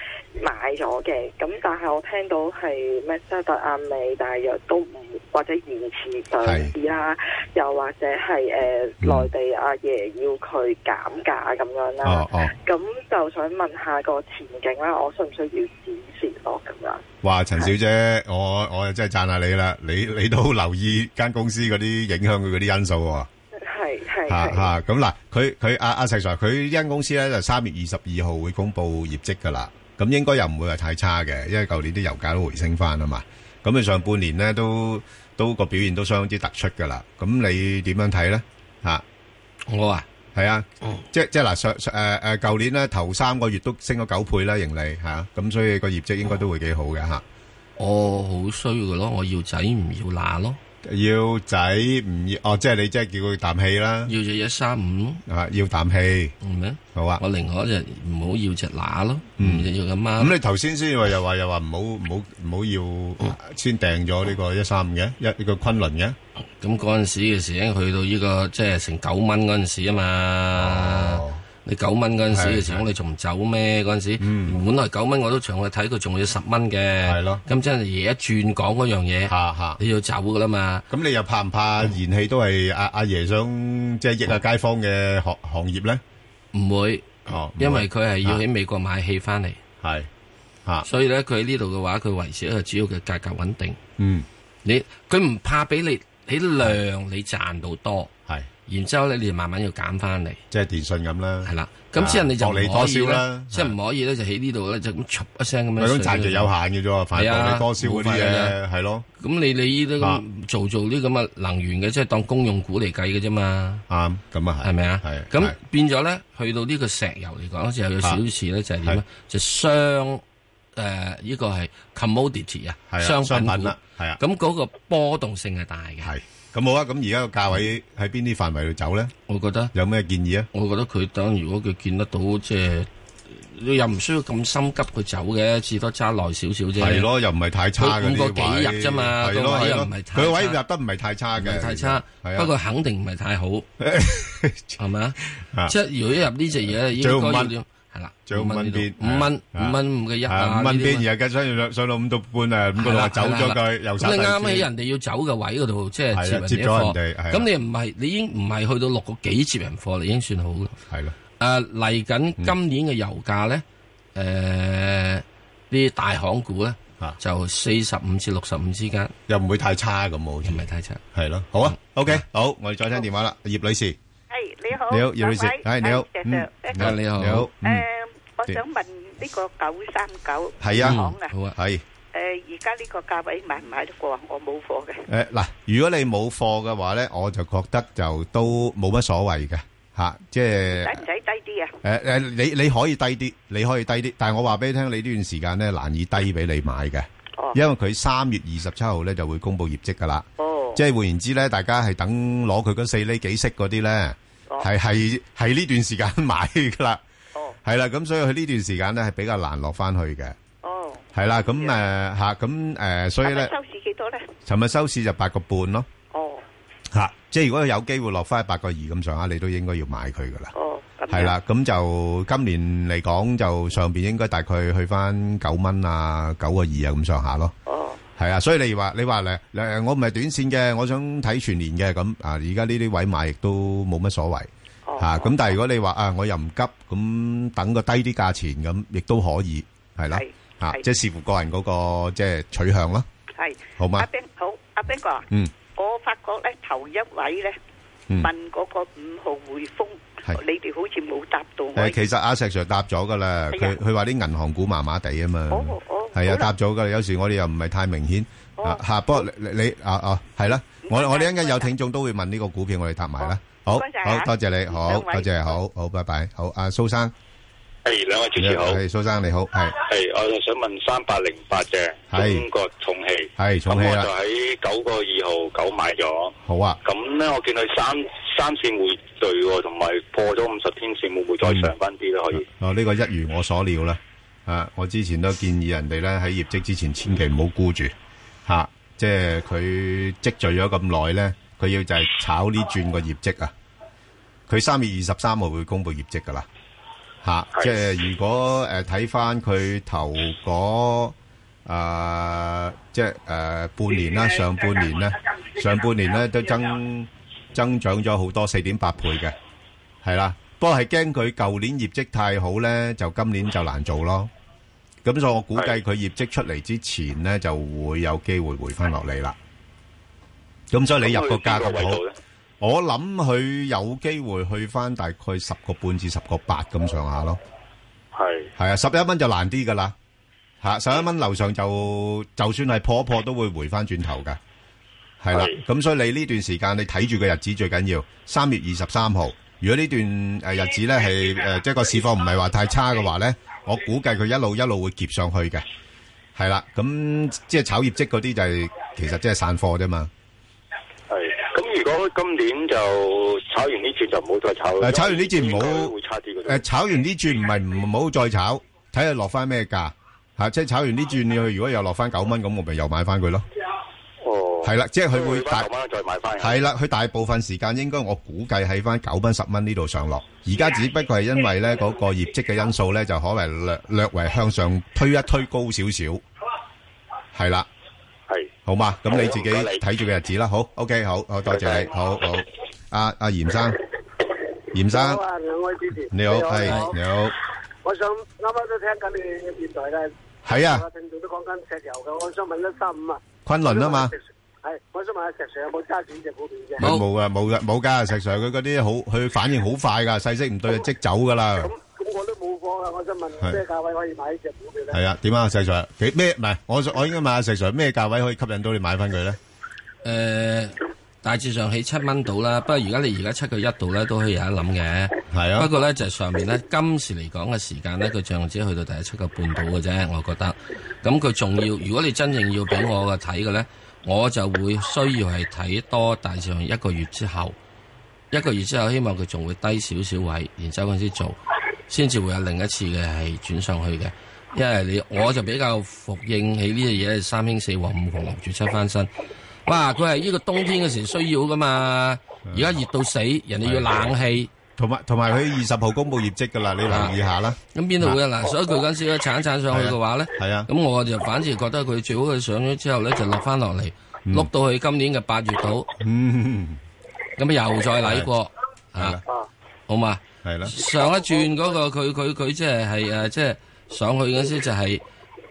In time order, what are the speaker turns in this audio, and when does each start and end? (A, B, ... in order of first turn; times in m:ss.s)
0:00.4-0:17.0 A
0:06.4-0:06.7 B
0:09.0-0:09.3 B
0:12.0-0:12.5 B
0:17.2-0:23.3 B
0:23.6-0:24.7 A
0:24.3-0:39.0 B
0:39.7-0:40.0 C
0:40.3-0:47.2 B
0:47.8-0:50.6 C
0:50.8-0:54.1 B
0:54.0-0:55.2 C
0:55.3-0:56.3 B
0:56.4-1:00.3 C
0:56.9-0:57.2 B
0:59.4-1:06.2 B
1:06.6-1:20.8 C
1:10.5-1:11.4 B
1:12.3-1:12.8 B
1:14.2-1:14.6 B
1:17.0-1:17.4 B
1:19.3-1:19.8 B
1:20.9-1:26.0 B
1:26.5-1:29.6 C
1:27.2-1:28.4 B
1:29.8-1:30.1 B
1:30.8-1:33.8 C
1:34.0-1:34.2 B
1:34.6-1:38.1 C
1:38.7-1:40.4 C
1:40.5-1:43.7 B
1:41.4-1:46.5 C
1:45.8-1:49.0 B
1:47.1-1:48.6 C
1:49.2-1:53.8 C
1:53.9-1:55.5 B
1:54.6-2:00.2 C
2:00.8-2:06.1 C
2:02.9-2:04.2 B
2:06.0-2:09.1 B
2:09.3-2:09.7 C
2:09.7-2:10.5 B
2:10.5-2:17.1 C
2:16.8-2:22.5 B
2:17.8-2:20.6 C
2:21.4-2:23.7 C
2:23.8-2:24.8 B
2:24.8-2:31.0 C
2:25.3-2:25.8 B
2:26.6-2:27.5 B
2:28.3-2:34.7 B
2:32.8-2:40.7 C
2:36.1-2:37.5 B
2:40.9-2:41.1 B
2:41.4-2:43.6 C
2:44.1-2:49.1 C
2:49.3-2:54.0 B
2:50.4-2:51.0 C
2:51.6-2:52.2 C
2:54.3-2:56.9 D
2:54.8-2:57.9 B
2:56.8-2:57.5 C
2:57.6-3:01.3 D
3:00.6-3:01.0 B
3:00.8-3:01.5 C
3:01.5-3:01.8 B
3:02.1-3:05.0 D
3:05.1-3:11.0 B
3:10.7-3:11.7 D
3:11.8-3:27.0 B
3:20.4-3:20.8 D
3:27.6-3:30.4 B
3:30.6-3:31.8 D
3:31.1-3:33.5 B
3:33.2-3:34.3 D
3:34.4-3:35.9 B
3:36.1-3:36.4 D
3:36.9-3:40.5 B
3:40.5-3:41.3 D
3:41.1-3:47.5 B
3:47.7-3:48.0 D
3:48.2-4:03.0 B
3:54.9-3:55.4 D
4:00.1-4:00.8 D
4:03.4-4:07.6 D
4:03.8-4:04.1 B
4:08.2-4:12.0 D
4:11.7-4:27.1 B
4:13.5-4:13.8 D
4:15.5-4:16.5 D
4:20.8-4:21.7 D
4:23.2-4:25.6 D
4:27.8-4:28.8 E
4:28.4-4:29.8 B
4:29.7-4:42.4 E
4:32.1-4:32.4 B
4:33.4-4:34.1 B
4:36.4-4:36.8 B
4:41.4-4:41.7 B
4:42.3-4:47.9 B
4:48.4-4:53.5 B
4:54.5-4:56.5 B
4:57.2-5:09.3 B
5:10.0-5:14.3 B
5:15.0-5:19.4 B
5:20.7-5:22.0 B
5:20.9-5:22.1 E
5:22.6-5:27.4 B
5:28.1-5:28.5 E
5:28.6-5:29.9 B
5:30.6-5:34.4 B
5:35.2-5:45.6 B
5:46.4-5:50.1 B
5:51.1-5:56.6 E
5:54.8-5:55.9 B
5:56.4-6:03.4 B
6:04.2-6:06.6 E
6:04.6-6:05.7 B
6:06.4-6:16.2 B
6:17.3-6:17.7 B
6:18.6-6:23.8 B
6:19.1-6:19.8 E
6:21.5-6:21.9 E
6:24.7-6:25.2 B
6:24.9-6:27.0 F
6:26.1-6:27.4 B
6:26.6-6:26.9 C
6:27.8-6:36.9 F
6:30.4-6:30.8 B
6:33.4-6:34.1 B
6:36.8-6:41.7 B
6:36.8-6:37.1 C
6:41.6-6:45.0 F
6:44.9-6:49.4 B
6:50.0-7:07.6 C
6:55.3-6:55.7 B
7:08.3-7:11.4 C
7:11.9-7:19.1 C
7:19.6-7:24.5 C
7:22.5-7:22.8 B
7:23.6-7:24.1 B
7:24.8-7:28.2 B
7:26.9-7:27.1 C
7:27.7-7:35.9 C
7:29.7-7:30.7 B
7:36.0-7:36.8 B
7:37.4-7:39.2 C
7:38.0-7:38.3 B
7:39.0-7:39.2 B
7:39.9-7:45.0 C
7:40.4-7:40.8 B